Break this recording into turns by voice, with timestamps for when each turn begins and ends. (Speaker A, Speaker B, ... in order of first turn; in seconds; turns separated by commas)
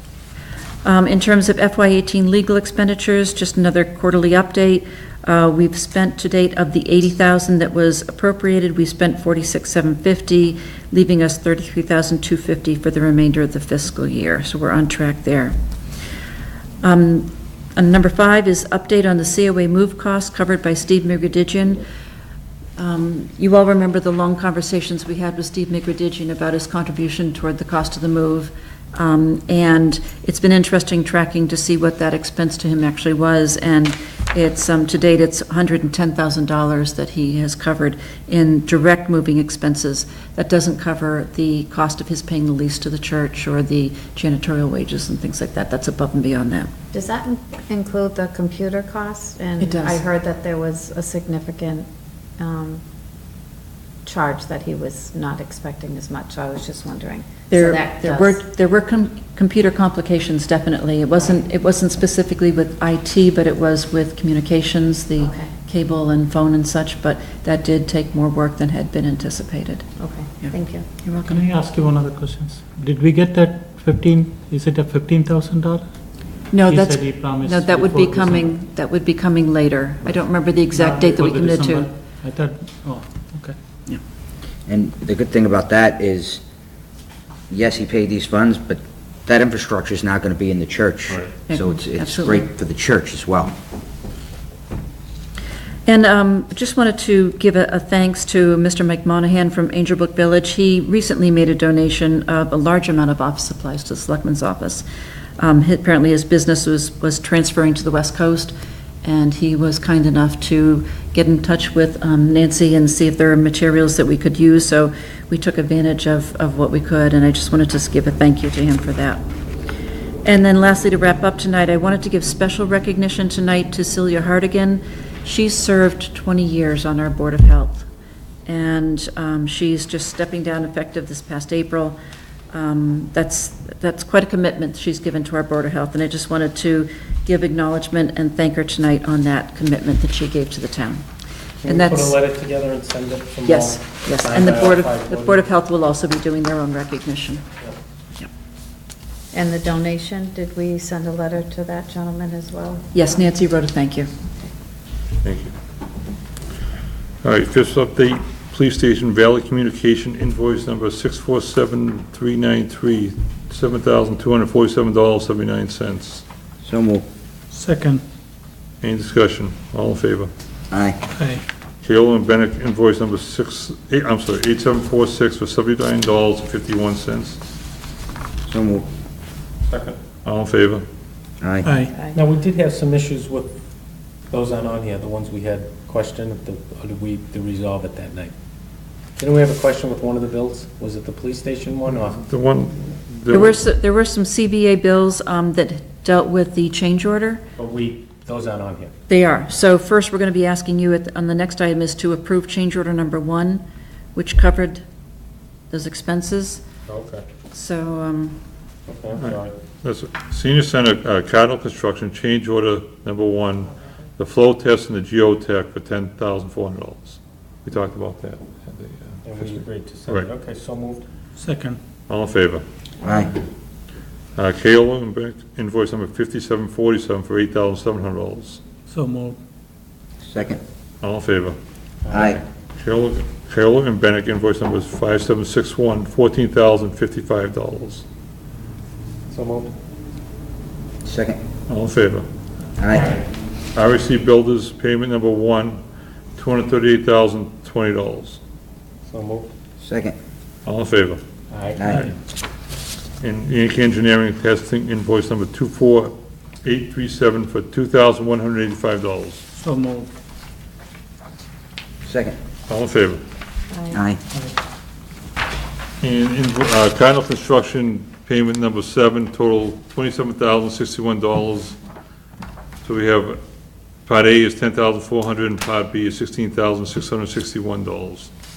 Speaker A: 0.8-15.6, Speaker A: 16.8-21.8, Speaker A: 22.8-46.7, Speaker B: 46.9-51.9, Speaker A: 49.6-50.0, Speaker B: 52.4-52.8, Speaker B: 54.0-58.4, Speaker A: 57.5-69.9, Speaker B: 65.2-65.5, Speaker B: 70.0-70.8, Speaker A: 70.4-71.4, Speaker C: 71.2-76.0, Speaker A: 76.5-81.9, Speaker C: 76.5-78.5, Speaker C: 80.7-83.5, Speaker D: 84.7-86.4, Speaker D: 87.5-93.5, Speaker A: 91.5-92.5, Speaker A: 95.8-104.8, Speaker A: 105.4-119.2, Speaker A: 120.2-127.9, Speaker A: 128.4-132.0, Speaker A: 132.5-141.0, Speaker E: 141.6-145.5, Speaker A: 141.6-142.2, Speaker A: 143.4-147.4, Speaker B: 149.3-152.9, Speaker A: 152.9-154.1, Speaker F: 155.2-155.5, Speaker F: 157.2-166.2, Speaker D: 166.6-167.0, Speaker C: 167.5-168.0, Speaker F: 168.8-170.3, Speaker D: 170.7-171.0, Speaker C: 171.1-171.4, Speaker F: 171.8-177.4, Speaker D: 178.5-178.8, Speaker E: 179.7-180.0, Speaker F: 180.2-180.8, Speaker D: 181.4-181.7, Speaker C: 181.6-182.0, Speaker B: 181.9-182.2, Speaker E: 182.1-183.6, Speaker E: 184.3-188.3, Speaker E: 189.2-192.2, Speaker F: 192.2-193.6, Speaker A: 193.3-197.4, Speaker E: 197.6-198.9, Speaker A: 199.1-203.6, Speaker A: 204.1-204.8, Speaker A: 205.7-206.6, Speaker E: 206.8-207.2, Speaker A: 207.5-208.4, Speaker E: 208.9-209.5, Speaker F: 209.2-220.3, Speaker E: 219.2-221.0, Speaker C: 221.4-221.8, Speaker F: 222.1-222.6, Speaker D: 223.0-223.3, Speaker F: 224.3-228.6, Speaker C: 228.9-229.4, Speaker D: 230.2-230.6, Speaker F: 231.0-231.6, Speaker E: 232.0-232.4, Speaker D: 232.1-232.4, Speaker F: 232.8-238.0, Speaker E: 239.3-239.7, Speaker D: 241.0-241.4, Speaker F: 241.7-242.3, Speaker D: 242.8-243.2, Speaker F: 242.9-243.2, Speaker F: 243.7-245.8, Speaker F: 246.3-248.4, Speaker E: 249.1-249.5, Speaker D: 249.8-250.2, Speaker F: 250.6-251.2, Speaker E: 251.5-252.2, Speaker D: 251.8-252.1, Speaker F: 253.2-259.4, Speaker C: 259.6-260.1, Speaker D: 262.0-262.4, Speaker F: 262.7-263.2, Speaker B: 263.7-264.0, Speaker D: 263.9-264.2, Speaker F: 266.0-271.8, Speaker F: 272.8-273.4, Speaker F: 274.1-278.3